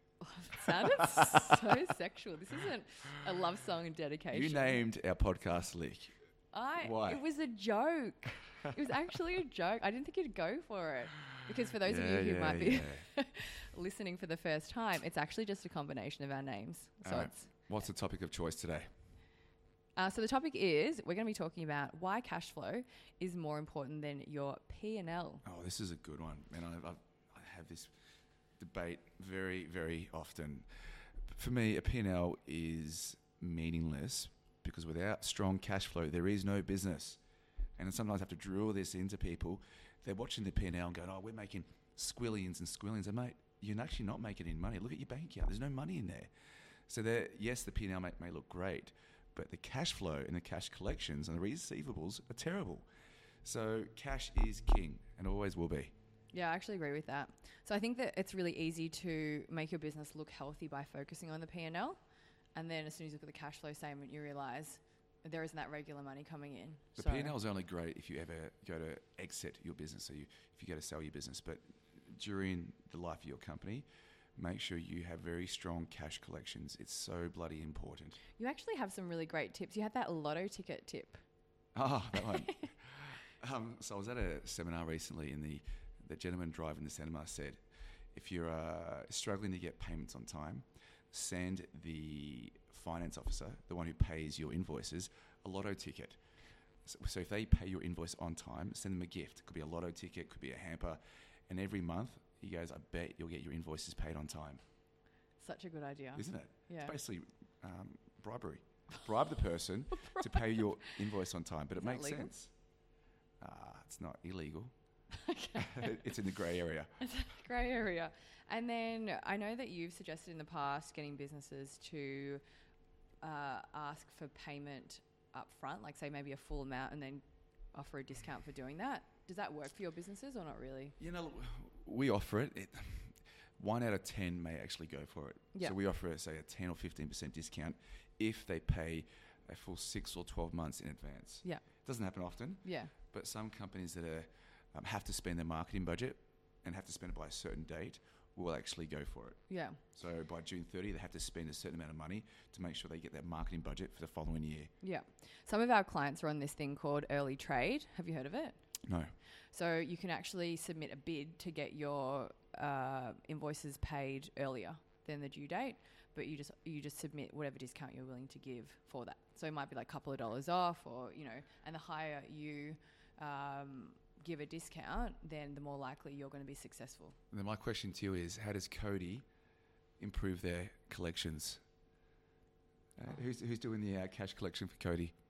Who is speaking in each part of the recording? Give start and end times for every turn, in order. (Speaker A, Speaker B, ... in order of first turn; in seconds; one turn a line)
Speaker A: 0.2-4.8
Speaker B: 4.3-6.1
Speaker A: 6.5-17.5
Speaker B: 6.8-7.2
Speaker B: 11.8-13.1
Speaker B: 17.0-18.9
Speaker A: 20.0-25.4
Speaker B: 25.4-27.9
Speaker B: 28.6-37.2
Speaker B: 37.8-46.3
Speaker B: 46.9-52.8
Speaker B: 53.4-55.9
Speaker A: 56.3-62.0
Speaker A: 62.5-67.3
Speaker B: 67.0-73.8
Speaker B: 74.3-78.2
Speaker A: 78.3-81.2
Speaker B: 81.7-87.6
Speaker A: 82.3-82.6
Speaker B: 88.1-96.2
Speaker B: 96.8-104.6
Speaker A: 105.4-106.9
Speaker B: 106.1-112.5
Speaker A: 110.0-111.0
Speaker A: 111.8-112.3
Speaker B: 113.4-114.7
Speaker A: 115.1-116.0
Speaker B: 115.6-117.0
Speaker A: 117.0-122.4
Speaker A: 123.2-130.9
Speaker B: 131.0-154.7
Speaker A: 142.6-142.9
Speaker A: 149.5-149.8
Speaker A: 154.8-158.6
Speaker B: 158.8-159.1
Speaker A: 159.5-177.2
Speaker B: 177.3-179.2
Speaker B: 180.0-181.6
Speaker B: 183.0-185.1